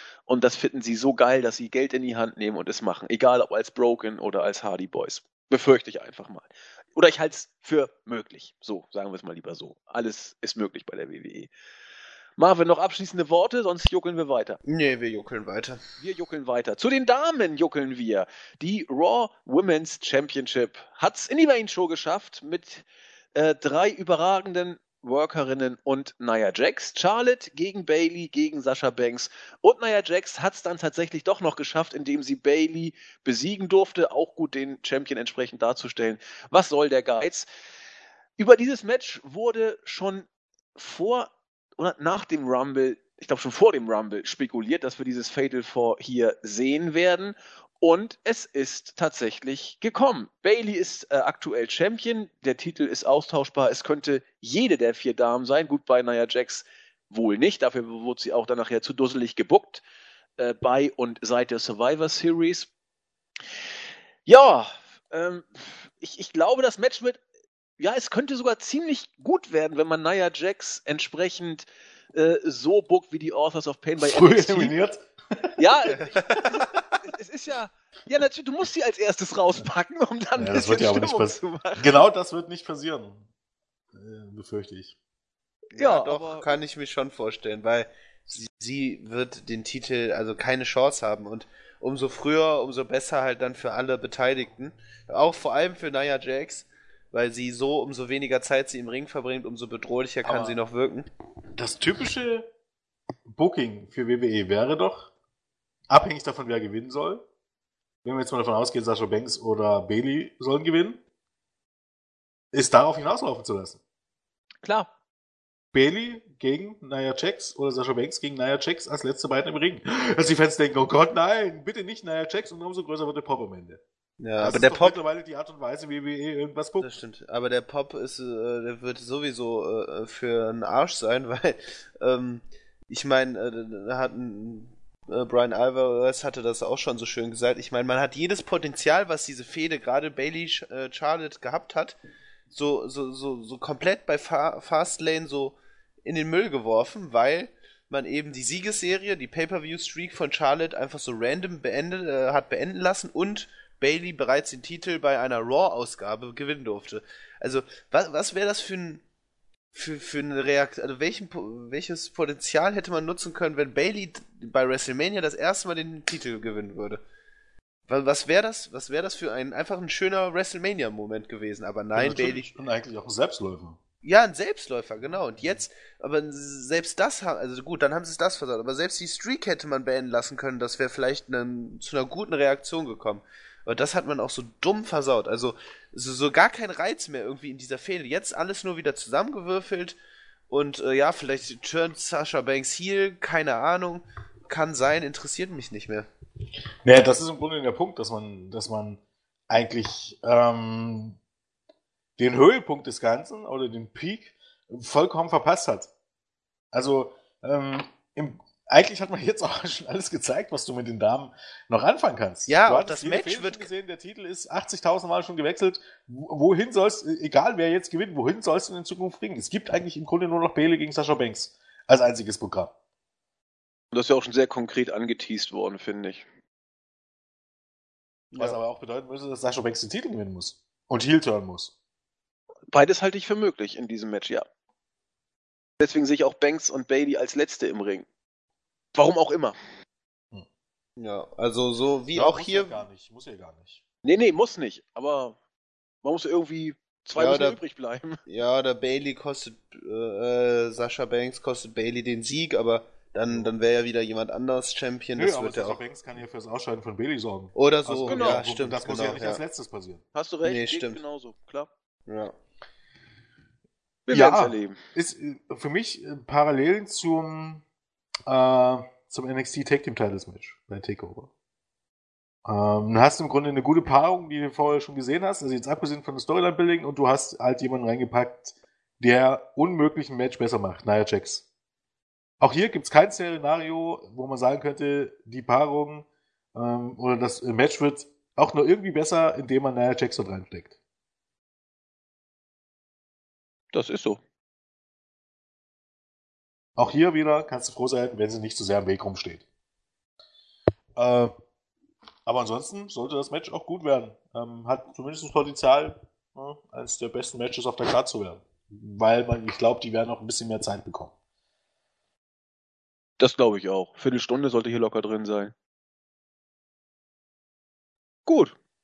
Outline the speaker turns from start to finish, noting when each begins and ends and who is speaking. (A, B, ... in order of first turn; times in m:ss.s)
0:00.3-0:11.5 A
0:12.4-0:14.6 A
0:14.6-0:15.8 B
0:16.0-0:37.4 A
0:38.4-0:59.8 A
1:00.4-1:02.7 A
1:04.2-1:07.2 A
1:07.8-1:14.7 A
1:14.0-1:15.6 C
1:15.6-1:22.0 A
1:15.8-1:16.8 B
1:20.4-1:23.2 C
1:23.9-1:25.0 C
1:25.7-1:41.1 B
1:25.7-1:26.5 A
1:40.2-1:40.6 C
1:41.6-1:42.5 C
1:43.3-1:45.1 C
1:45.9-1:47.2 C
1:48.0-1:51.0 C
1:52.5-1:53.8 C
1:54.6-1:54.9 A
1:55.7-2:03.8 C
2:04.2-2:05.0 B
2:04.4-2:06.9 C
2:06.8-2:22.0 B
2:22.5-2:39.0 B
2:39.7-2:47.0 B
2:47.9-2:52.5 B
2:51.9-2:53.8 C
2:54.0-3:10.0 B
3:10.5-3:16.1 B
3:16.8-3:21.2 C
3:22.2-3:25.9 C
3:26.7-3:42.7 C
3:32.5-3:33.7 B
3:43.9-3:46.2 A
3:48.3-3:48.6 B
3:48.4-3:51.7 C
3:52.7-3:54.4 A
3:55.8-3:58.0 A
3:58.9-3:59.5 A
4:01.0-4:02.8 B
4:02.1-4:03.8 C
4:04.0-4:05.4 A
4:06.0-4:08.2 A
4:07.1-4:07.6 B
4:08.3-4:15.8 B
4:15.2-4:20.0 C
4:17.6-4:19.4 B
4:18.1-4:18.4 A
4:20.1-4:21.7 A
4:20.4-4:21.0 B
4:22.1-4:22.3 B
4:24.1-4:24.8 A
4:24.1-4:27.6 C
4:28.3-4:31.3 C
4:32.4-4:41.4 C
4:42.4-4:50.7 C
4:53.7-4:54.2 A
4:56.8-4:59.4 C
5:01.0-5:01.3 C
5:02.2-5:11.1 C
5:13.2-5:15.5 A
5:18.2-5:18.5 A